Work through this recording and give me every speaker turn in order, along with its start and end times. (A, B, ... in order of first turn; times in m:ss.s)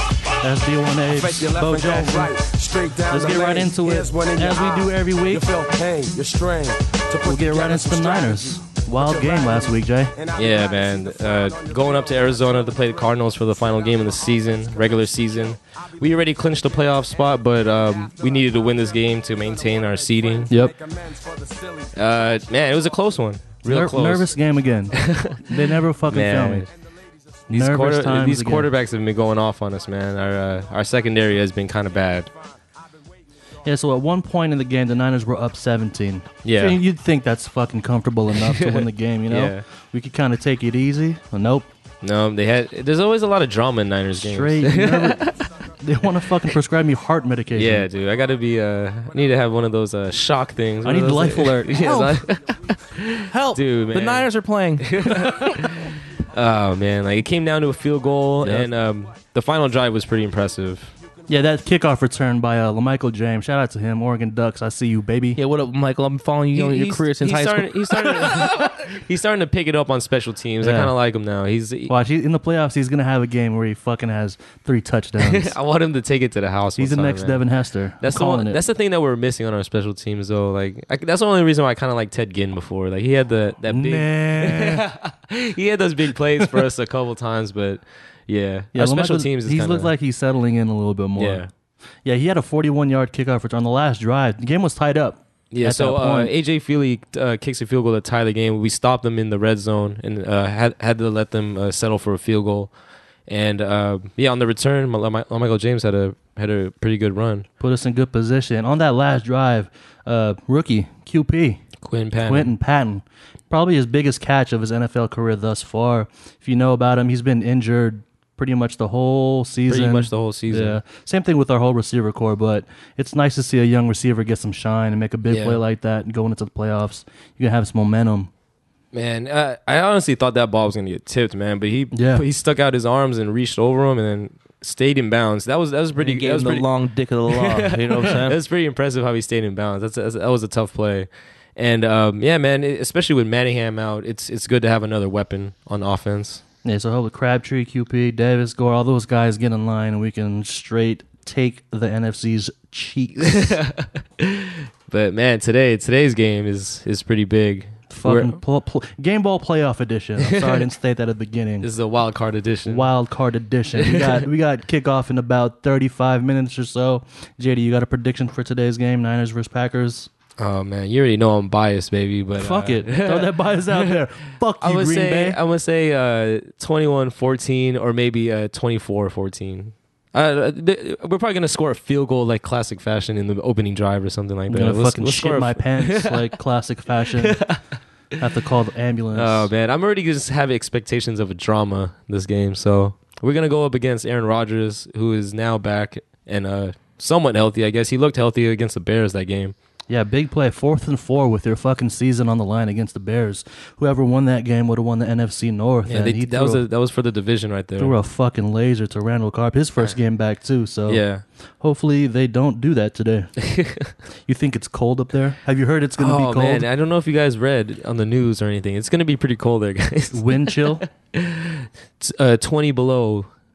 0:00.4-0:02.3 A
0:01.1-0:22.7 B
0:03.1-0:05.5 A
0:07.2-0:10.2 A
0:10.4-0:20.5 C
0:20.5-0:20.7 A
0:22.0-0:24.3 C
0:23.7-0:26.7 A
0:24.9-0:25.4 C
0:26.1-0:26.7 C
0:26.7-0:27.1 B
0:27.5-0:28.7 A
0:27.5-0:32.3 C
0:32.3-0:32.6 B
0:33.6-0:41.7 A
0:36.4-0:36.8 C
0:38.3-0:39.6 C
0:42.0-0:45.5 C
0:44.2-0:47.9 A
0:47.5-0:54.3 C
0:50.8-0:52.2 A
0:53.3-0:55.7 D
0:54.8-1:00.9 C
0:58.4-0:58.7 A
1:01.3-1:05.4 A
1:05.4-1:08.6 D
1:06.5-1:11.9 C
1:10.6-1:10.9 A
1:11.9-1:15.6 A
1:15.2-1:17.4 C
1:16.8-1:18.6 A
1:18.0-1:29.9 C
1:23.7-1:24.8 A
1:28.7-1:31.5 A
1:31.2-1:31.5 C
1:32.0-1:36.3 A
1:35.5-1:42.7 C
1:43.3-1:47.5 C
1:47.6-1:51.6 A
1:51.8-1:52.5 C
1:52.2-2:08.3 A
1:59.7-2:00.8 C
2:05.3-2:05.6 C
2:08.9-2:16.7 C
2:11.9-2:12.2 A
2:16.0-2:18.4 D
2:17.3-2:26.4 C
2:26.6-2:33.6 A
2:33.2-2:38.4 C
2:37.9-2:41.7 A
2:40.2-2:40.7 C
2:41.6-2:42.9 C
2:42.7-2:50.1 A
2:43.8-2:44.2 C
2:50.4-2:54.0 C
2:52.4-2:55.4 A
2:54.6-3:06.3 C
3:04.5-3:07.4 A
3:07.2-3:07.6 C
3:08.2-3:09.5 A
3:09.1-3:19.6 C
3:19.9-3:26.6 A
3:25.9-3:28.0 C
3:27.8-3:31.0 A
3:30.9-3:31.2 C
3:31.6-3:33.3 A
3:33.4-3:33.9 C
3:34.3-3:36.7 A
3:36.0-3:43.3 C
3:40.1-3:40.8 A